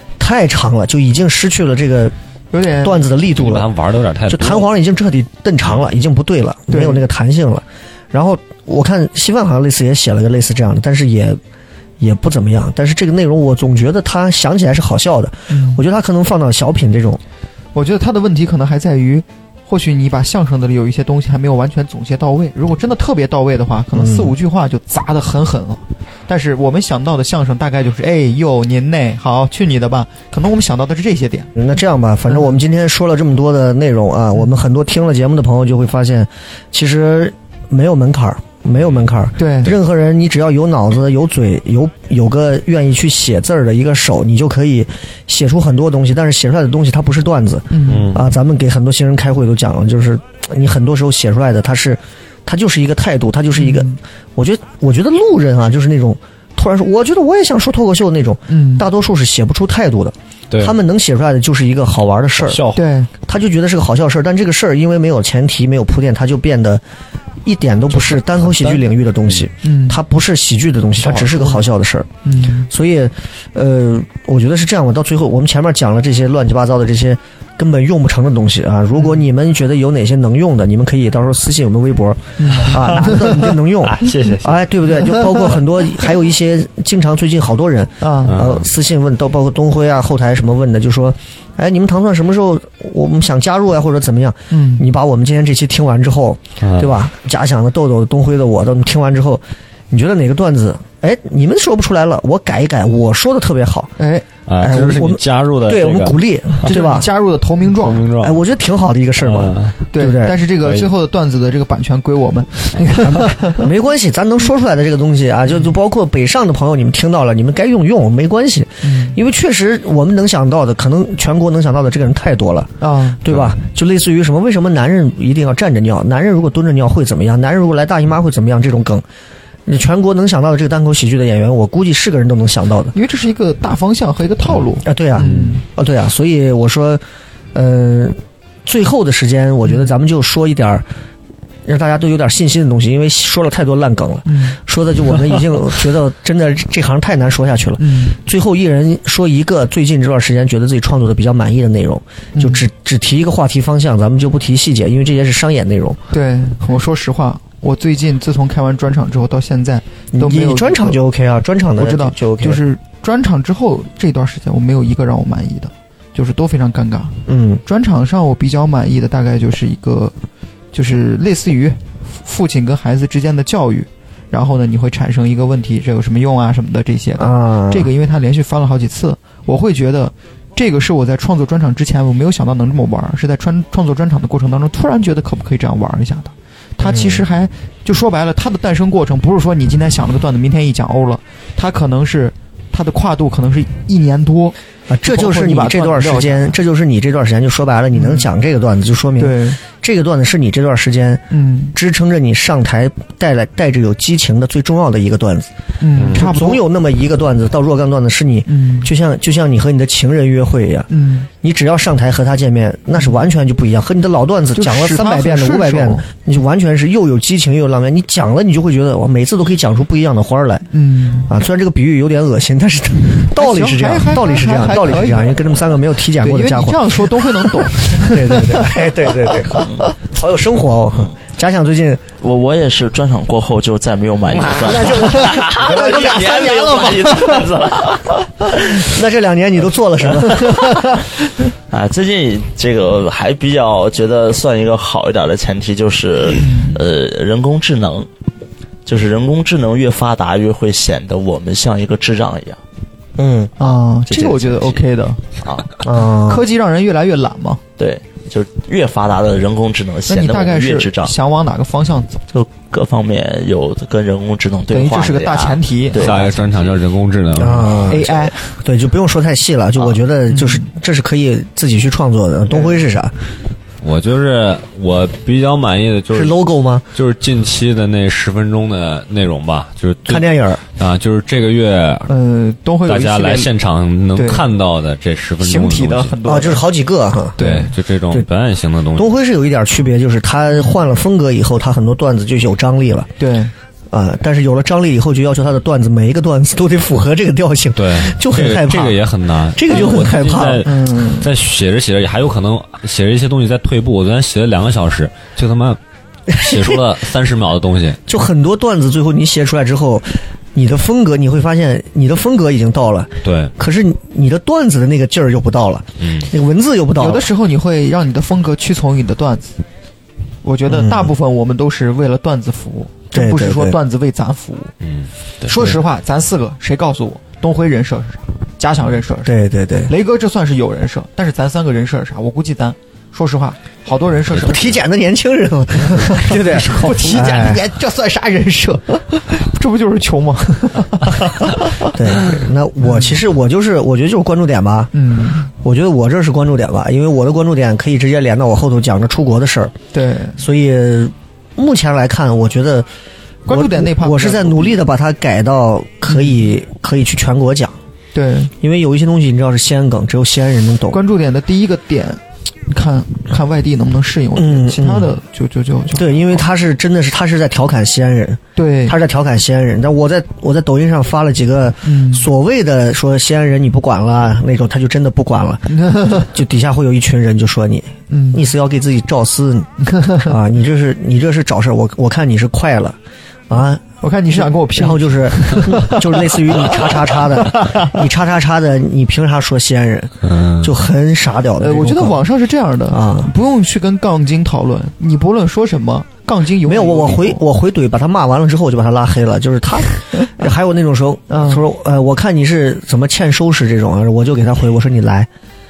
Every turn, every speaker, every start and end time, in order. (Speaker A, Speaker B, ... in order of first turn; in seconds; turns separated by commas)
Speaker A: 0.2-2.1, Speaker B: 2.5-3.1, Speaker A: 2.8-3.7, Speaker C: 3.3-4.7, Speaker A: 4.3-11.4, Speaker B: 6.7-7.0, Speaker A: 12.0-17.2, Speaker B: 15.5-15.8, Speaker B: 17.7-31.5, Speaker A: 23.9-24.4, Speaker A: 31.6-62.6, Speaker B: 32.3-32.6, Speaker B: 39.4-39.7, Speaker B: 47.7-48.1, Speaker C: 47.9-48.3, Speaker B: 53.6-54.0, Speaker B: 58.5-58.9, Speaker C: 60.5-60.8, Speaker C: 62.4-62.9, Speaker B: 62.7-63.1, Speaker A: 63.3-66.8, Speaker A: 67.4-72.1, Speaker B: 67.9-68.8, Speaker B: 69.6-70.0, Speaker B: 71.0-71.7, Speaker B: 72.2-72.7, Speaker A: 72.7-103.9, Speaker B: 82.4-83.5, Speaker C: 83.8-84.7, Speaker B: 85.0-85.5, Speaker B: 88.0-88.4, Speaker C: 88.2-88.6, Speaker B: 94.5-94.8, Speaker C: 96.6-97.0, Speaker B: 104.0-104.2, Speaker C: 104.5-106.7, Speaker A: 104.6-107.1, Speaker B: 106.7-108.0, Speaker C: 107.7-108.4, Speaker A: 108.2-110.3, Speaker C: 109.2-109.8, Speaker B: 109.9-113.7, Speaker C: 110.6-110.9, Speaker A: 112.8-129.0, Speaker B: 118.8-119.2, Speaker B: 122.8-123.2, Speaker A: 129.7-132.9, Speaker B: 132.9-135.6, Speaker A: 134.8-137.0, Speaker C: 135.2-135.5, Speaker A: 137.5-140.8, Speaker A: 141.6-156.0, Speaker B: 144.3-144.6, Speaker B: 147.8-148.2, Speaker B: 152.3-152.6, Speaker B: 156.1-161.0, Speaker A: 160.1-162.6, Speaker B: 161.8-170.1, Speaker A: 167.3-167.6, Speaker B: 170.7-196.5, Speaker A: 177.2-177.9, Speaker A: 186.8-187.3, Speaker A: 194.9-205.5, Speaker B: 197.9-198.3, Speaker B: 199.2-199.6, Speaker B: 201.3-201.8, Speaker B: 205.8-206.6, Speaker C: 205.9-206.3, Speaker A: 206.1-210.9, Speaker B: 208.5-208.9, Speaker B: 210.9-211.3, Speaker A: 211.4-220.7, Speaker B: 214.6-216.0, Speaker B: 220.7-221.3, Speaker A: 221.2-232.0, Speaker B: 223.3-225.5, Speaker B: 226.1-228.9, Speaker D: 232.2-238.2, Speaker A: 234.4-236.1, Speaker B: 234.8-237.4, Speaker A: 238.5-241.1, Speaker D: 241.7-248.1, Speaker B: 246.4-246.8, Speaker D: 248.8-252.6, Speaker A: 253.2-253.5, Speaker B: 253.6-255.2, Speaker D: 254.1-254.8, Speaker D: 255.4-255.7, Speaker B: 255.8-257.6, Speaker A: 255.8-256.5, Speaker D: 257.8-261.1, Speaker B: 260.1-262.2, Speaker D: 262.3-266.7, Speaker B: 264.7-266.3, Speaker C: 265.9-268.0, Speaker A: 267.3-273.1, Speaker B: 267.8-268.6, Speaker B: 270.3-270.7, Speaker B: 272.5-272.8, Speaker C: 273.8-276.4, Speaker A: 276.1-276.9, Speaker C: 276.9-282.1, Speaker A: 280.1-280.6, Speaker B: 282.1-283.5, Speaker C: 282.9-286.1, Speaker B: 284.1-284.5, Speaker B: 285.4-286.6, Speaker A: 286.2-287.4, Speaker B: 287.4-287.7, Speaker C: 287.4-289.1, Speaker A: 288.9-293.1, Speaker B: 293.2-293.5, Speaker A: 293.9-300.8, Speaker C: 297.8-305.8, Speaker B: 299.7-301.3, Speaker A: 306.3-306.8, Speaker C: 306.3-308.0, Speaker A: 308.1-317.3, Speaker C: 313.2-313.5, Speaker C: 316.0-316.3, Speaker B: 316.9-319.6, Speaker B: 320.4-324.7, Speaker A: 320.7-321.1, Speaker A: 323.1-323.8, Speaker C: 324.8-325.7, Speaker B: 325.4-329.3, Speaker A: 329.2-329.9, Speaker B: 329.9-334.8, Speaker A: 334.3-336.4, Speaker C: 335.9-337.3, Speaker B: 335.9-341.9, Speaker A: 337.0-337.6, Speaker A: 341.8-344.9, Speaker B: 342.8-343.2, Speaker B: 344.9-345.5, Speaker A: 345.6-349.8, Speaker B: 349.9-350.4, Speaker A: 350.4-352.9, Speaker A: 353.4-357.8, Speaker B: 353.5-354.8, Speaker B: 356.1-356.4, Speaker B: 358.1-358.5, Speaker A: 358.6-361.0, Speaker B: 360.9-366.4, Speaker A: 364.3-365.1, Speaker A: 365.9-383.0, Speaker B: 368.6-369.0, Speaker B: 371.8-372.3, Speaker B: 375.7-376.3, Speaker B: 378.1-378.4, Speaker B: 379.9-380.3, Speaker A: 383.5-383.8, Speaker B: 384.0-387.9, Speaker A: 384.3-392.2, Speaker C: 390.3-390.7, Speaker B: 391.6-397.4, Speaker A: 392.9-393.3, Speaker A: 396.6-405.3, Speaker B: 401.3-401.6